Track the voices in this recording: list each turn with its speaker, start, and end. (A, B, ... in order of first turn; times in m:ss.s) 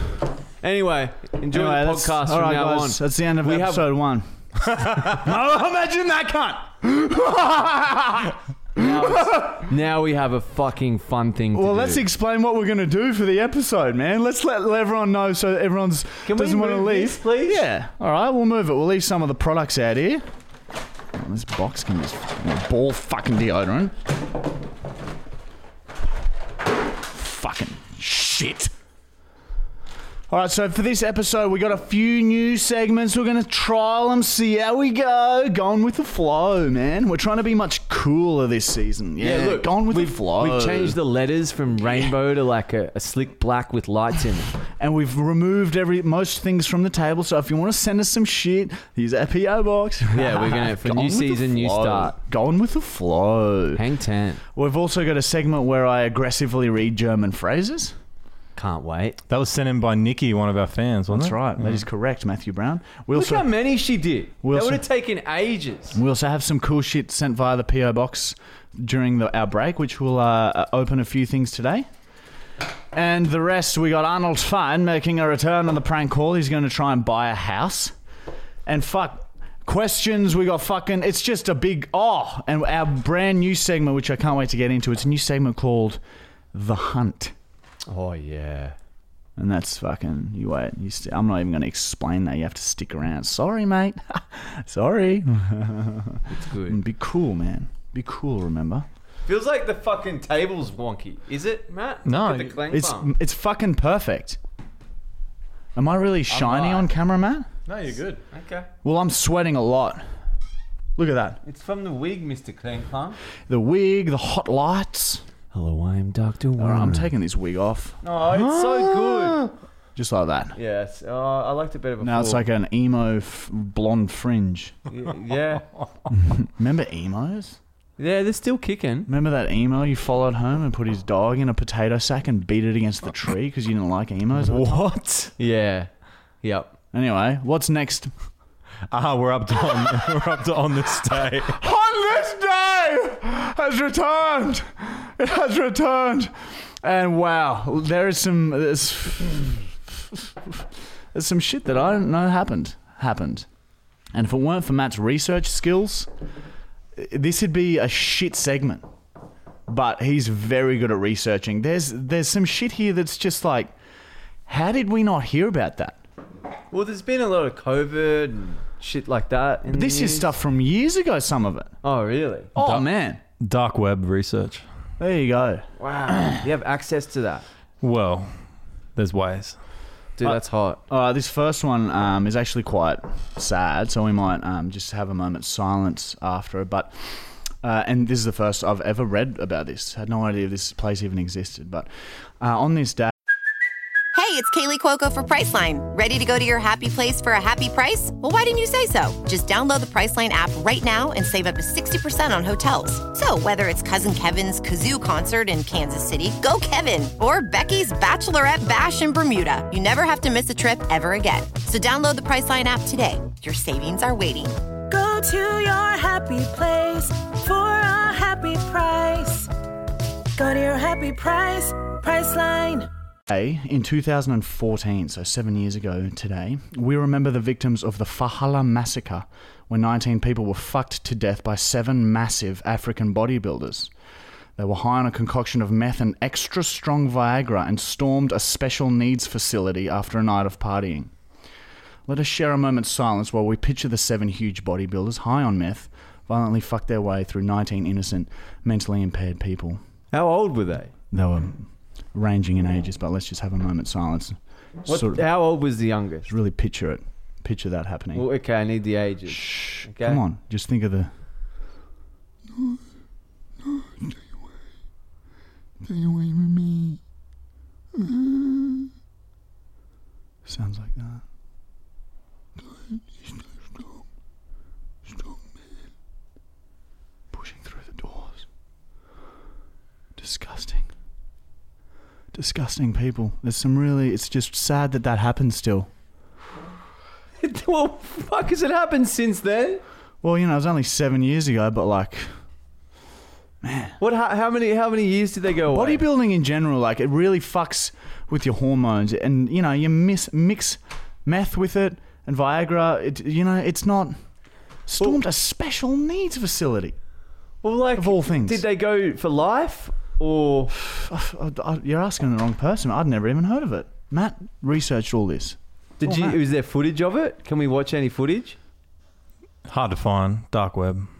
0:00.6-0:03.9 A
0:01.5-0:09.7 B
0:08.7-0:12.1 A
0:11.5-0:20.2 B
0:16.2-0:17.6 A
0:21.1-0:23.9 B
0:27.0-0:28.7 B
0:30.3-0:41.0 B
0:39.2-0:44.5 A
0:44.7-0:53.8 B
0:50.1-0:52.2 A
0:53.7-0:54.4 A
0:54.5-0:57.9 B
0:58.6-0:59.2 A
0:59.3-1:01.8 C
1:01.1-1:03.5 B
1:03.1-1:06.0 A
1:04.4-1:04.8 B
1:05.9-1:11.9 B
1:12.9-1:17.9 B
1:18.6-1:26.0 B
1:26.5-1:27.3 B
1:27.9-1:28.8 A
1:29.4-1:38.8 B
1:36.3-1:36.8 A
1:39.2-1:43.1 A
1:42.0-1:42.6 C
1:42.7-1:44.4 B
1:45.7-1:47.5 B
1:46.3-1:46.9 A
1:47.7-1:48.2 C
1:48.3-1:48.7 A
1:48.8-1:50.0 B
1:51.0-1:51.4 B
1:51.4-1:53.2 A
1:53.5-1:55.2 B
1:55.5-1:57.1 A
1:56.6-2:00.6 B
1:58.0-1:59.5 A
2:00.5-2:02.4 A
2:02.0-2:04.7 B
2:04.9-2:05.7 A
2:06.2-2:07.6 B
2:08.0-2:09.1 A
2:09.1-2:14.8 B
2:14.4-2:15.3 C
2:15.4-2:15.9 A
2:16.4-2:16.8 A
2:16.9-2:18.1 B
2:18.9-2:21.6 C
2:21.5-2:33.5 B
2:34.1-2:36.1 B
2:37.0-2:38.8 B
2:39.7-2:43.7 B
2:44.5-2:46.0 B
2:46.7-2:50.3 A
2:49.7-2:51.7 B
2:51.8-2:52.5 A
2:52.5-2:53.2 B
2:52.6-2:52.8 C
2:53.4-2:54.6 C
2:55.0-2:56.4 B
2:55.8-2:57.4 A
2:57.8-2:58.3 C
2:59.0-2:59.6 C
3:00.2-3:00.8 A
3:00.2-3:11.9 B
3:12.4-3:13.1 B
3:14.1-3:34.6 D
3:34.9-3:39.5 E
3:40.4-3:42.9 E
3:43.3-3:53.9 B
3:54.6-4:01.1 B
4:02.1-4:09.8 B
4:10.1-4:10.9 A
4:11.1-4:15.2 B
4:14.8-4:16.3 A
4:16.3-4:18.2 B
4:18.1-4:20.2 A
4:19.3-4:21.1 B
4:22.5-4:22.8 B
4:23.6-4:24.2 B
4:25.8-4:27.0 B
4:27.9-4:28.9 B
4:30.4-4:31.2 B
4:32.6-4:33.8 B
4:35.1-4:35.4 B
4:37.3-4:38.4 B
4:40.2-4:40.9 B
4:42.3-4:45.9 B
4:47.4-4:49.8 A
4:50.2-4:52.3 B
4:53.6-4:54.0 B
4:54.0-4:56.0 A
4:55.7-5:04.2 B
5:04.9-5:07.0 B
5:07.6-5:10.7 A
5:08.0-5:08.6 B
5:10.7-5:16.4 B
5:16.0-5:18.6 A
5:19.7-5:21.1 C